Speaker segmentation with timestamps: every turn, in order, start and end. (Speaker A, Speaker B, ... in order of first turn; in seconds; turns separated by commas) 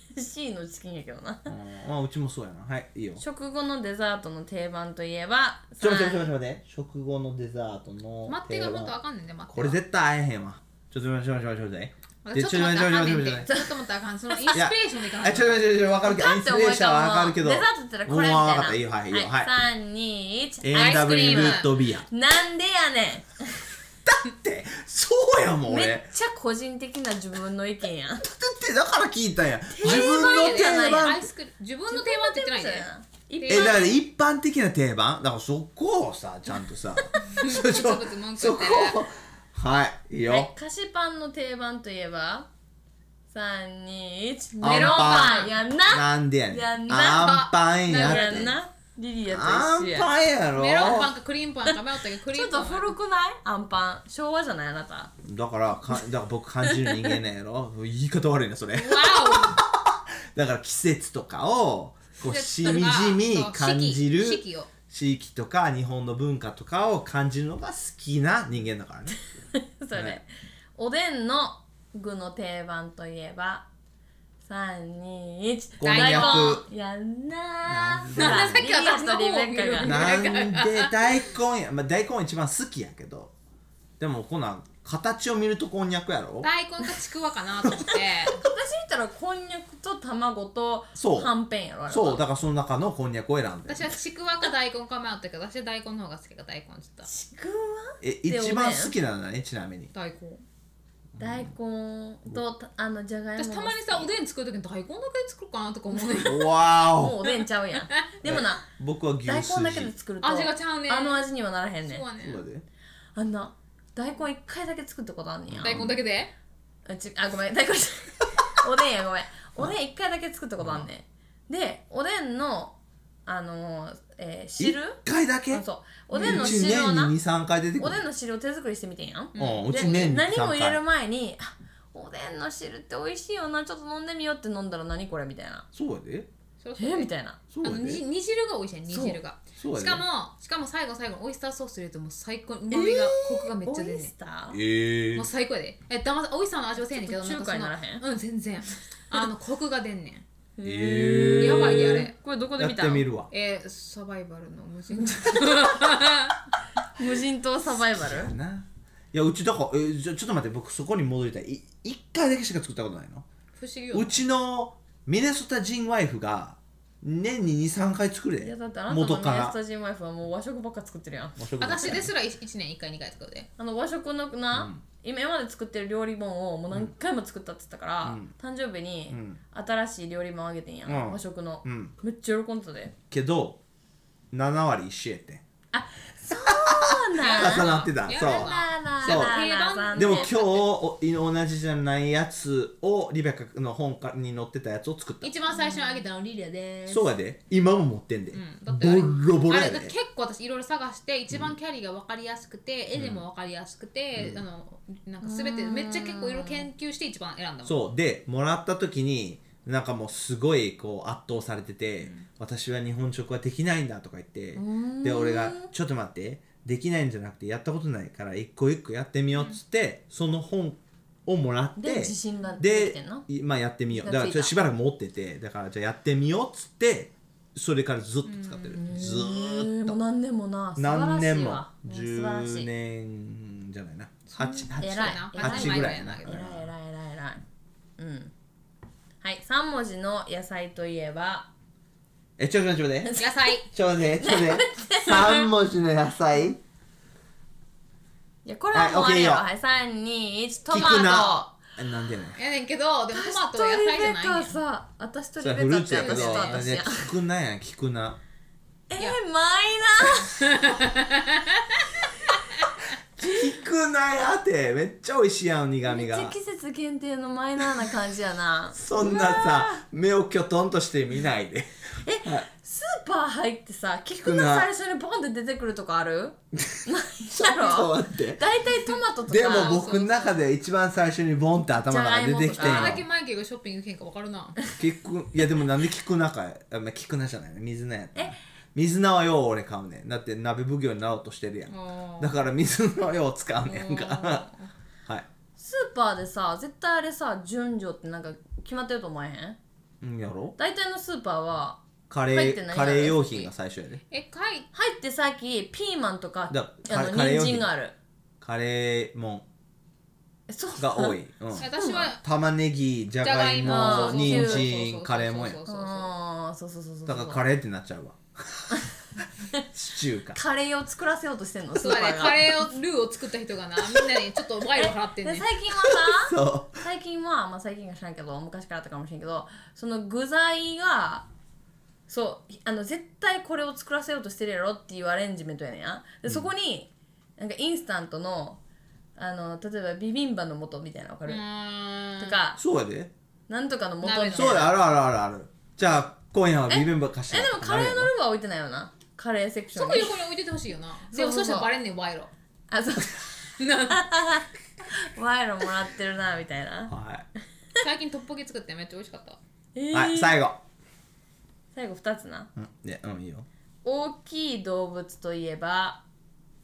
Speaker A: 0.1-1.5, Speaker B: 1.5-3.2, Speaker A: 3.2-6.3, Speaker B: 5.8-8.9, Speaker C: 8.3-9.8, Speaker B: 9.5-13.5, Speaker C: 12.2-15.7, Speaker A: 14.3-14.6, Speaker B: 14.5-19.5, Speaker A: 16.0-23.6, Speaker B: 20.6-22.1, Speaker C: 20.8-21.7, Speaker B: 24.1-26.1, Speaker A: 25.7-28.3, Speaker B: 28.2-31.3, Speaker A: 29.7-31.1, Speaker C: 29.8-32.9, Speaker A: 31.9-33.9, Speaker C: 33.4-33.9, Speaker B: 33.5-40.5, Speaker C: 37.3-39.0, Speaker A: 40.3-42.5, Speaker A: 43.3-47.4, Speaker B: 44.6-48.6, Speaker C: 44.6-45.5, Speaker C: 47.1-48.5, Speaker A: 47.9-50.1, Speaker B: 49.3-51.1, Speaker C: 50.5-52.9, Speaker A: 52.3-55.1, Speaker B: 55.2-69.2, Speaker A: 56.7-57.1, Speaker C: 58.7-59.6, Speaker C: 62.2-64.7, Speaker A: 69.5-73.7, Speaker B: 70.0-70.2, Speaker A: 74.5-80.1, Speaker B: 75.8-76.6, Speaker C: 75.8-76.6, Speaker B: 77.7-78.7, Speaker C: 78.1-80.9, Speaker B: 79.8-83.3, Speaker B: 84.0-86.5, Speaker C: 86.4-88.5, Speaker A: 88.3-92.2, Speaker B: 91.0-91.3, Speaker B: 91.9-93.9, Speaker C: 93.7-97.1, Speaker A: 97.1-99.0, Speaker B: 98.0-99.9, Speaker C: 99.9-100.4, Speaker B: 101.2-101.5, Speaker A: 101.2-104.1, Speaker C: 103.4-106.5, Speaker A: 106.0-108.7, Speaker B: 106.2-107.2, Speaker B: 108.2-109.9, Speaker A: 109.2-112.0, Speaker C: 110.2-111.3, Speaker C: 111.8-112.4, Speaker B: 112.2-112.6, Speaker A: 113.2-116.0, Speaker B: 115.5-116.0, Speaker C: 115.6-116.3, Speaker A: 116.9-122.8, Speaker B: 120.6-120.9, Speaker A: 123.3-125.0, Speaker B: 124.6-125.6, Speaker A: 125.5-127.2, Speaker C: 126.1-126.5, Speaker B: 126.2-128.1, Speaker A: 127.8-135.7, Speaker C: 129.3-130.1, Speaker B: 129.4-130.8, Speaker B: 135.7-136.3, Speaker C: 136.6-137.1, Speaker A: 136.8-137.4, Speaker B: 137.5-138.0, Speaker C: 137.6-144.1, Speaker A: 138.9-139.2, Speaker B: 139.6-140.1, Speaker A: 142.7-144.6, Speaker B: 144.5-145.3, Speaker C: 145.2-150.2, Speaker A: 146.8-148.0, Speaker A: 150.6-153.1, Speaker B: 150.6-153.3, Speaker C: 151.4-152.1, Speaker C: 153.3-156.4, Speaker A: 155.0-155.9, Speaker A: 157.0-158.3, Speaker B: 157.7-163.2, Speaker C: 163.6-164.2, Speaker B: 163.9-169.6, Speaker A: 168.4-172.1, Speaker B: 171.4-172.1, Speaker C: 171.6-173.5, Speaker A: 173.6-182.9, Speaker B: 174.5-174.8, Speaker B: 178.0-178.3, Speaker B: 179.1-179.4, Speaker B: 180.9-181.9, Speaker B: 183.1-183.6, Speaker B: 184.3-185.4, Speaker A: 185.7-190.5, Speaker B: 186.4-189.3, Speaker C: 187.2-190.5, Speaker B: 189.9-195.3, Speaker C: 195.2-197.1, Speaker B: 196.9-199.9, Speaker C: 198.3-207.8, Speaker B: 201.3-201.6, Speaker B: 202.9-203.2, Speaker B: 204.2-204.4, Speaker A: 205.2-206.7, Speaker B: 207.6-230.0, Speaker A: 214.6-215.7, Speaker C: 219.3-219.6, Speaker A: 221.8-223.3, Speaker A: 223.9-224.5, Speaker C: 228.2-228.8, Speaker A: 228.7-232.7, Speaker B: 230.8-236.7, Speaker A: 234.4-237.4, Speaker C: 234.8-236.4, Speaker A: 238.0-238.3, Speaker A: 239.2-241.5, Speaker B: 242.4-243.2, Speaker C: 243.2-243.7, Speaker B: 243.7-246.6, Speaker A: 244.2-245.5, Speaker A: 248.4-251.6, Speaker B: 248.7-249.4, Speaker B: 250.7-252.4, Speaker C: 252.4-254.5, Speaker A: 253.1-257.1, Speaker B: 255.4-258.2, Speaker C: 256.0-256.6, Speaker A: 258.9-260.4, Speaker C: 260.4-261.8, Speaker B: 263.2-266.4, Speaker A: 265.8-269.8, Speaker B: 268.8-271.7, Speaker A: 272.0-279.9, Speaker B: 274.2-274.7, Speaker B: 276.7-278.4, Speaker B: 279.3-283.0, Speaker C: 279.3-280.4, Speaker A: 281.9-283.0, Speaker C: 282.6-284.6, Speaker B: 284.8-294.5, Speaker C: 291.7-292.4, Speaker C: 293.7-294.7, Speaker A: 295.6-299.6, Speaker B: 300.0-300.6, Speaker A: 300.6-303.5, Speaker B: 302.1-304.0, Speaker C: 304.1-304.7, Speaker A: 304.7-308.0, Speaker B: 306.5-307.7, Speaker B: 308.4-309.5, Speaker A: 310.5-312.1, Speaker B: 310.8-315.6, Speaker C: 311.6-312.2, Speaker C: 313.2-316.1, Speaker A: 313.6-314.7, Speaker A: 315.7-317.4, Speaker B: 317.1-318.8, Speaker B: 319.7-320.4, Speaker A: 320.3-322.7, Speaker C: 321.8-325.5, Speaker A: 324.7-331.3, Speaker B: 326.1-326.8, Speaker A: 332.1-338.6, Speaker A: 339.2-341.4, Speaker C: 341.3-342.4, Speaker A: 342.2-342.6, Speaker B: 342.6-343.1, Speaker A: 343.5-344.7, Speaker C: 344.0-344.7, Speaker B: 344.3-348.1, Speaker A: 346.7-350.1, Speaker C: 349.7-352.3, Speaker A: 351.1-351.7, Speaker A: 352.7-353.3, Speaker C: 353.6-354.1, Speaker A: 353.9-356.9, Speaker B: 356.9-357.3, Speaker C: 357.8-359.4, Speaker A: 359.8-360.4, Speaker B: 359.9-360.6, Speaker A: 361.7-362.5, Speaker B: 362.6-363.5, Speaker A: 363.8-366.0